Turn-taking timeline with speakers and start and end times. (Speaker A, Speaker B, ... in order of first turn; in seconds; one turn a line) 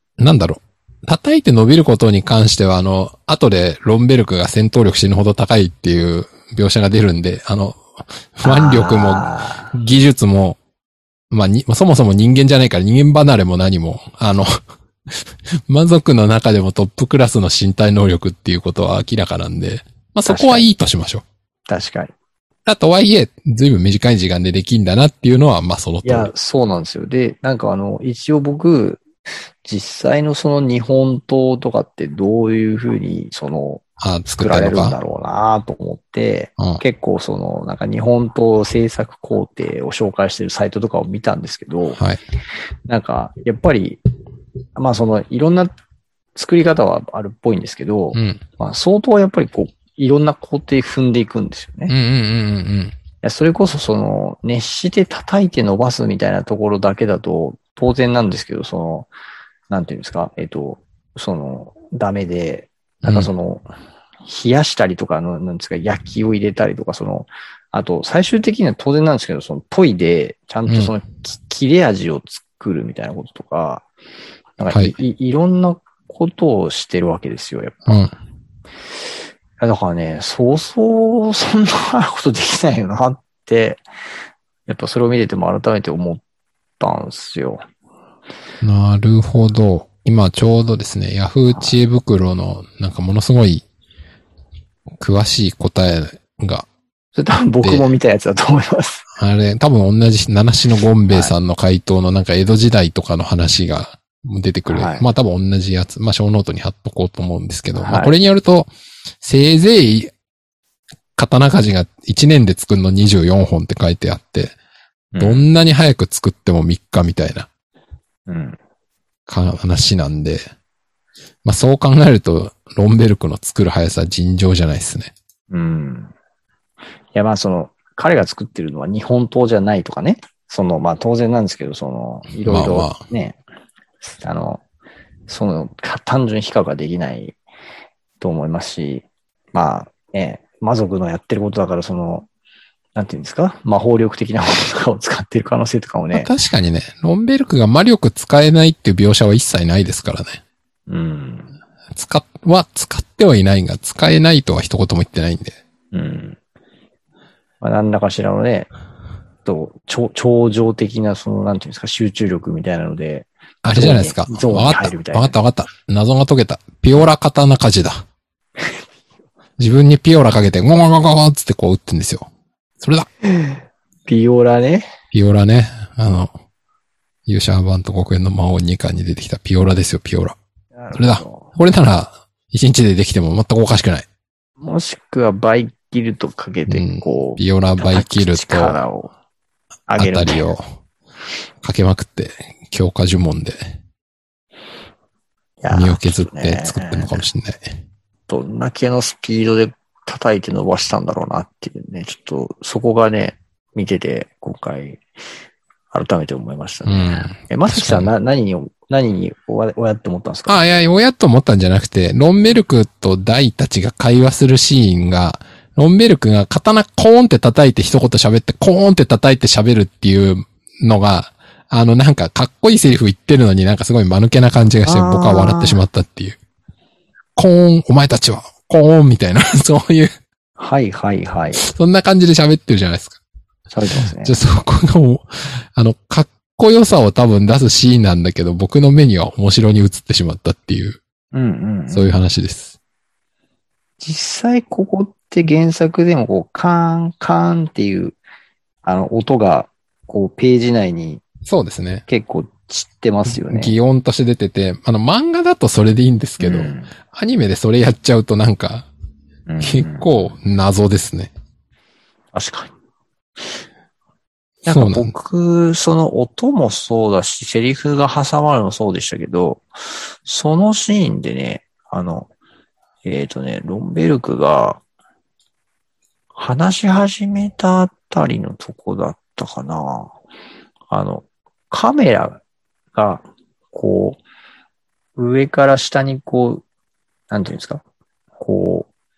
Speaker A: 0.2-10.6
Speaker B: 8.4-9.7
Speaker A: 11.3-21.2
Speaker B: 20.3-20.7
Speaker B: 21.7-22.1
Speaker A: 22.7-26.3
Speaker B: 26.0-29.0
Speaker B: 29.6-42.0
Speaker A: 34.0-35.0
Speaker A: 42.0-42.2
Speaker B: 42.9-44.0
Speaker B: 44.8-45.7
Speaker B: 46.4-51.9
Speaker A: 48.1-48.4
Speaker A: 51.9-53.0
Speaker B: 53.2-59.1
Speaker B: 59.7-63.7
Speaker A: 63.0-63.3
Speaker B: 64.2-73.9
Speaker B: 74.6-78.1
Speaker A: 74.7-75.0
Speaker A: 77.9-78.1
Speaker B: 79.6-83.8
Speaker B: 84.7-86.2
Speaker B: 86.8-87.6
Speaker A: 88.6-93.7
Speaker A: 95.0-96.7
Speaker B: 97.2-99.0
Speaker A: 97.6-97.9
Speaker A: 99.1-108.7
Speaker B: 101.1-101.3
Speaker B: 104.7-105.1
Speaker B: 107.7-108.2
Speaker A: 109.2-110.1
Speaker A: 111.2-114.5
Speaker B: 115.1-115.5
Speaker A: 115.2-117.5
Speaker B: 118.3-118.6
Speaker A: 119.3-120.4
Speaker A: 121.5-125.1
Speaker B: 125.5-126.1
Speaker B: 127.1-133.4
Speaker A: 132.4-133.0
Speaker B: 134.0-134.6
Speaker B: 135.3-137.4
Speaker B: 138.2-142.3
Speaker B: 142.9-146.3
Speaker A: 146.1-150.4
Speaker B: 150.9-151.5
Speaker A: 151.9-155.6
Speaker B: 155.9-156.4
Speaker B: 157.6-158.7
Speaker B: 159.4-165.4
Speaker A: 163.6-168.1
Speaker A: 169.6-172.3
Speaker A: 172.8-173.1
Speaker B: 173.2-174.9
Speaker A: 175.1-176.3
Speaker A: 177.3-180.4
Speaker B: 180.8-181.5
Speaker A: 180.9-184.1
Speaker B: 184.6-189.1
Speaker A: 186.7-188.8
Speaker B: 189.9-190.5
Speaker A: 190.0-190.6
Speaker A: 191.6-193.7
Speaker B: 195.6-197.2
Speaker A: 195.7-197.8
Speaker B: 198.3-205.0
Speaker B: 205.9-210.9
Speaker A: 206.9-208.1
Speaker A: 210.5-226.4
Speaker B: 224.8-225.8
Speaker A: 227.4-230.1
Speaker B: 230.6-231.6
Speaker A: 231.6-233.2
Speaker B: 233.7-234.4
Speaker A: 234.1-241.0
Speaker B: 241.3-242.1
Speaker A: 241.9-242.7
Speaker B: 244.0-248.2
Speaker B: 248.8-251.2
Speaker A: 251.5-252.1
Speaker B: 252.1-253.8
Speaker A: 253.3-258.9
Speaker B: 256.4-256.9
Speaker B: 259.5-260.3
Speaker A: 259.6-261.3
Speaker B: 262.3-262.7
Speaker B: 264.6-272.3
Speaker A: 264.7-265.1
Speaker B: 273.1-274.8
Speaker B: 276.4-280.1
Speaker B: 280.9-282.4
Speaker B: 282.9-284.2
Speaker B: 285.2-286.6
Speaker B: 287.3-287.8
Speaker B: 288.4-288.9